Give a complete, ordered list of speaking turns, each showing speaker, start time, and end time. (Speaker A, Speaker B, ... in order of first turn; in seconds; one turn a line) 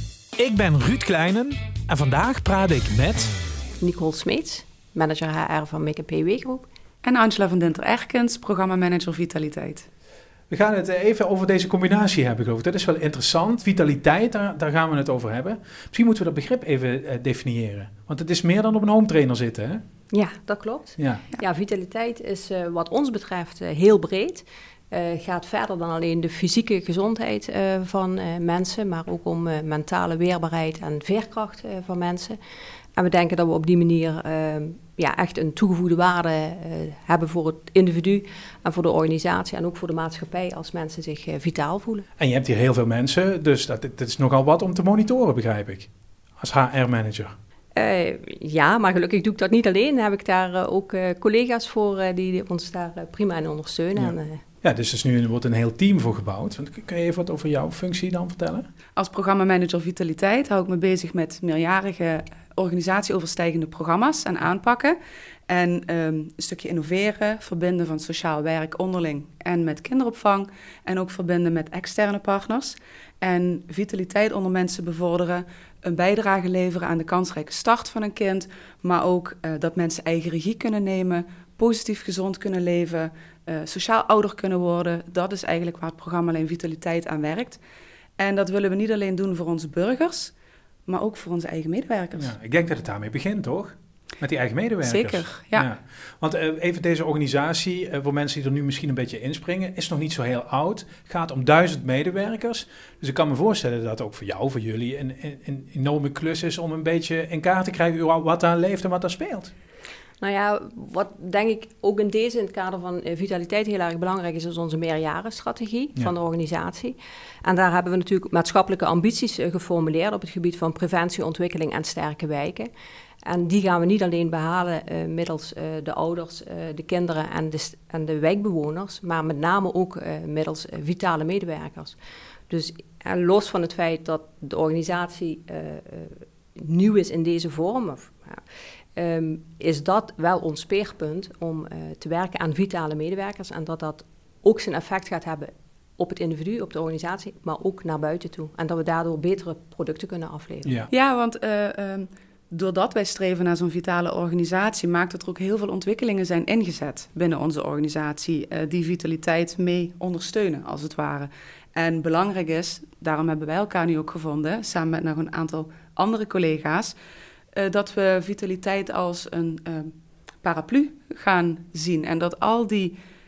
Speaker A: 0.4-3.3
Speaker B: 3.8-6.7
Speaker C: 7.0-9.8
Speaker A: 10.5-19.8
Speaker B: 20.1-32.4
Speaker A: 21.0-21.2
Speaker B: 33.0-42.0
Speaker A: 42.2-47.3
Speaker B: 47.8-54.4
Speaker A: 54.0-58.7
Speaker C: 59.0-65.0
Speaker C: 65.5-87.6
Speaker C: 88.2-90.3
Speaker C: 90.9-92.3
Speaker A: 92.2-109.5
Speaker C: 94.8-95.7
Speaker B: 110.2-122.7
Speaker B: 123.2-132.0
Speaker B: 132.5-138.4
Speaker B: 138.9-150.8
Speaker C: 150.9-166.9
Speaker C: 167.5-172.9